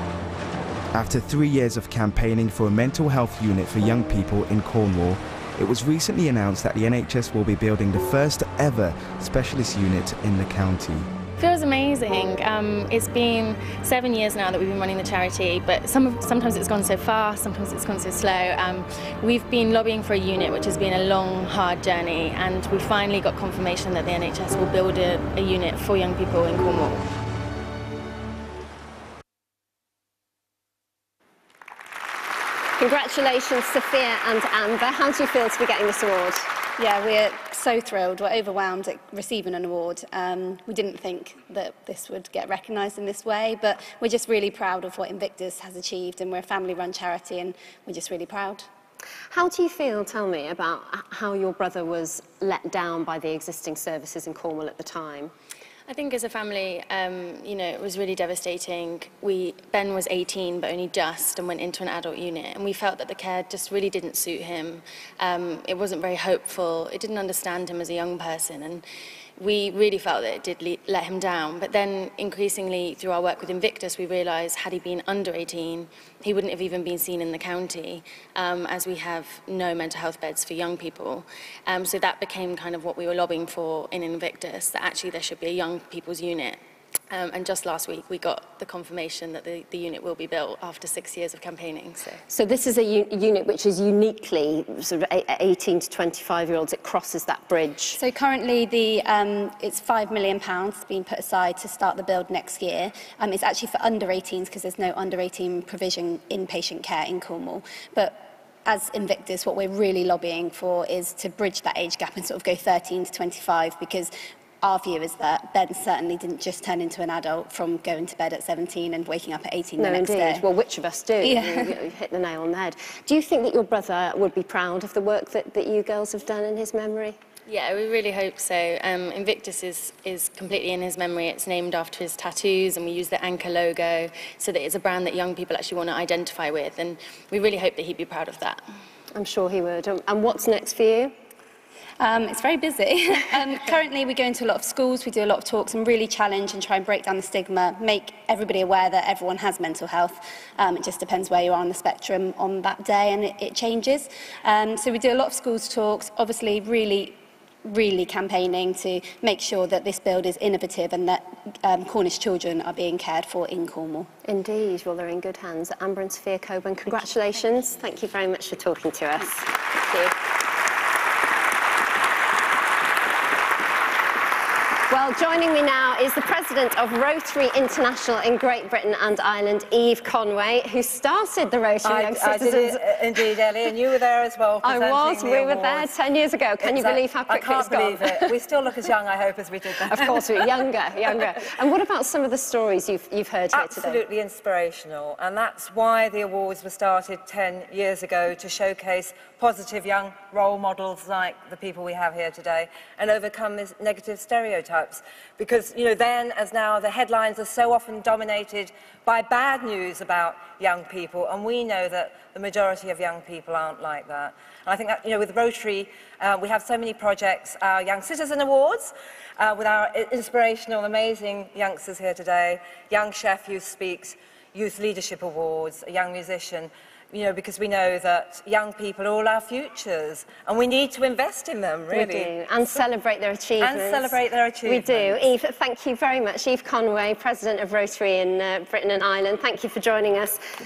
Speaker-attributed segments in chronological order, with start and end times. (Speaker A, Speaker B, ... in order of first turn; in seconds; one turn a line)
Speaker A: 0.9-11.1
Speaker B: 11.4-27.1
Speaker C: 32.8-36.5
Speaker D: 36.8-48.7
Speaker C: 49.3-55.3
Speaker B: 55.9-68.8
Speaker B: 69.4-86.6
Speaker B: 87.1-92.2
Speaker C: 92.3-98.0
Speaker D: 98.0-120.4
Speaker C: 119.8-127.2
Speaker D: 121.2-121.7
Speaker B: 127.5-138.6
Speaker C: 139.1-141.1
Speaker D: 142.0-164.1
Speaker C: 164.2-170.1
Speaker C: 174.9-182.8
Speaker E: 181.8-185.9
Speaker C: 184.6-188.3
Speaker E: 186.6-190.4
Speaker C: 189.9-194.0
Speaker E: 191.1-191.4
Speaker E: 193.5-232.8
Speaker C: 231.9-240.4
Speaker E: 233.6-235.2